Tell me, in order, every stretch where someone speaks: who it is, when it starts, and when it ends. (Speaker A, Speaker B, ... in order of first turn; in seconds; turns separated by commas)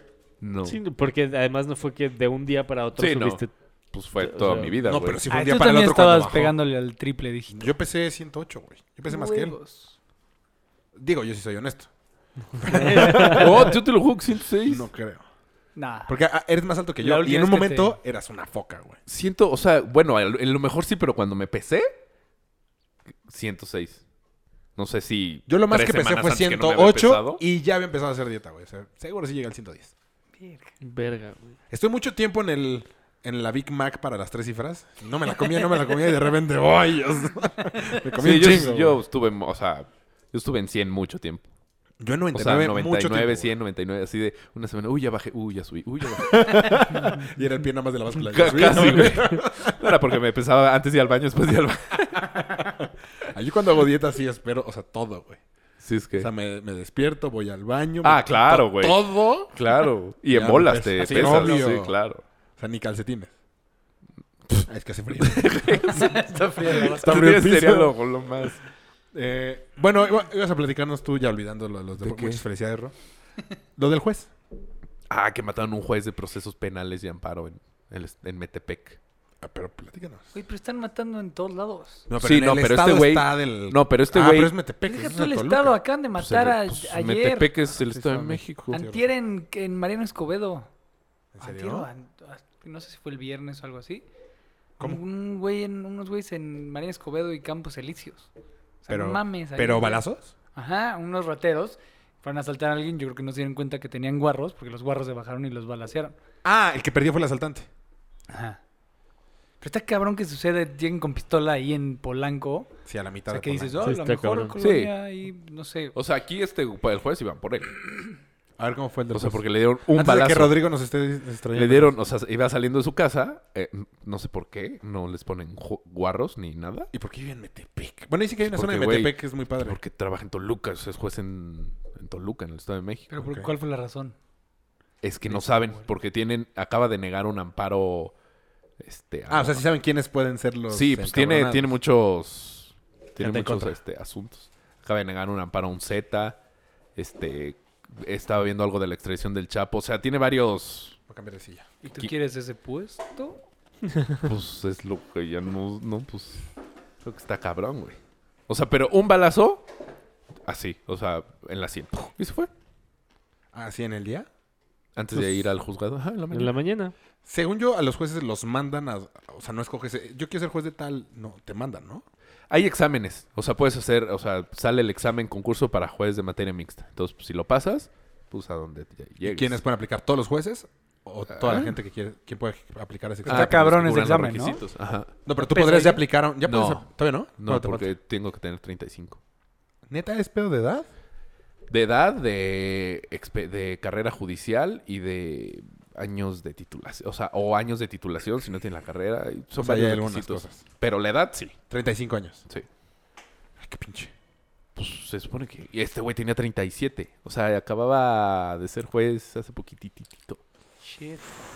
Speaker A: 0.4-0.8, Speaker B: 0.6-3.5, Speaker A: 3.0-5.2, Speaker B: 4.2-4.7, Speaker C: 4.8-6.5, Speaker D: 5.3-7.7, Speaker C: 7.5-9.6, Speaker D: 9.1-9.9, Speaker C: 10.9-11.9, Speaker C: 12.6-13.8, Speaker B: 12.6-13.5, Speaker A: 13.2-14.8, Speaker C: 14.7-15.2, Speaker D: 15.8-16.1, Speaker C: 16.1-19.0, Speaker D: 17.0-17.9, Speaker A: 19.1-21.9, Speaker A: 23.2-24.0, Speaker A: 24.8-27.4, Speaker C: 25.5-29.9, Speaker D: 30.4-30.7, Speaker B: 30.8-31.5, Speaker C: 31.7-39.0, Speaker A: 38.2-41.4, Speaker C: 42.0-43.5, Speaker A: 42.3-46.9, Speaker C: 46.2-49.9, Speaker A: 48.3-52.5, Speaker C: 52.6-55.4, Speaker A: 55.8-56.3, Speaker C: 56.2-59.6, Speaker A: 58.0-62.2, Speaker C: 60.3-61.9, Speaker D: 61.0-61.7, Speaker C: 62.6-63.3, Speaker C: 64.7-67.9, Speaker A: 65.2-66.2, Speaker D: 65.9-67.2, Speaker A: 66.8-68.6, Speaker C: 69.1-72.9, Speaker A: 72.0-72.4, Speaker C: 73.8-74.3, Speaker A: 75.1-79.0, Speaker C: 79.4-80.3, Speaker D: 80.3-82.1, Speaker C: 82.1-85.8, Speaker A: 82.2-84.5, Speaker D: 84.8-87.5, Speaker A: 86.2-88.7, Speaker C: 87.7-89.1, Speaker D: 88.7-90.7, Speaker C: 91.3-91.9, Speaker D: 91.4-94.0, Speaker D: 94.8-98.3, Speaker D: 98.8-100.0, Speaker C: 98.9-100.3, Speaker D: 100.5-106.2, Speaker C: 106.4-107.7, Speaker D: 108.3-108.6, Speaker D: 109.6-112.7, Speaker C: 112.8-113.9, Speaker D: 113.3-115.9, Speaker B: 113.8-114.5, Speaker A: 114.6-114.9, Speaker A: 115.9-117.8, Speaker C: 118.6-121.9, Speaker A: 119.1-120.6, Speaker A: 121.5-126.9, Speaker C: 126.9-129.8, Speaker A: 128.4-133.1, Speaker D: 133.1-134.1, Speaker C: 133.2-133.5, Speaker A: 135.0-138.1, Speaker D: 135.3-135.9, Speaker A: 138.8-139.6, Speaker C: 139.3-141.7, Speaker A: 140.7-146.4, Speaker C: 143.2-143.8, Speaker A: 146.9-151.0, Speaker C: 151.1-151.7, Speaker D: 151.8-153.4, Speaker A: 154.2-156.4, Speaker A: 157.0-159.6, Speaker A: 160.4-162.5, Speaker C: 163.5-164.3, Speaker A: 164.9-166.5, Speaker C: 165.1-165.4, Speaker B: 166.3-166.9, Speaker C: 167.2-172.0, Speaker A: 172.5-179.6, Speaker C: 179.2-183.7, Speaker A: 181.3-181.7, Speaker D: 183.2-184.6, Speaker A: 183.2-185.1, Speaker C: 185.2-187.9, Speaker D: 185.5-186.0, Speaker A: 186.4-189.2, Speaker C: 189.9-190.9, Speaker A: 191.7-201.6, Speaker C: 199.6-200.6, Speaker C: 201.7-202.4, Speaker C: 203.6-204.1, Speaker A: 204.8-210.4, Speaker D: 210.8-211.2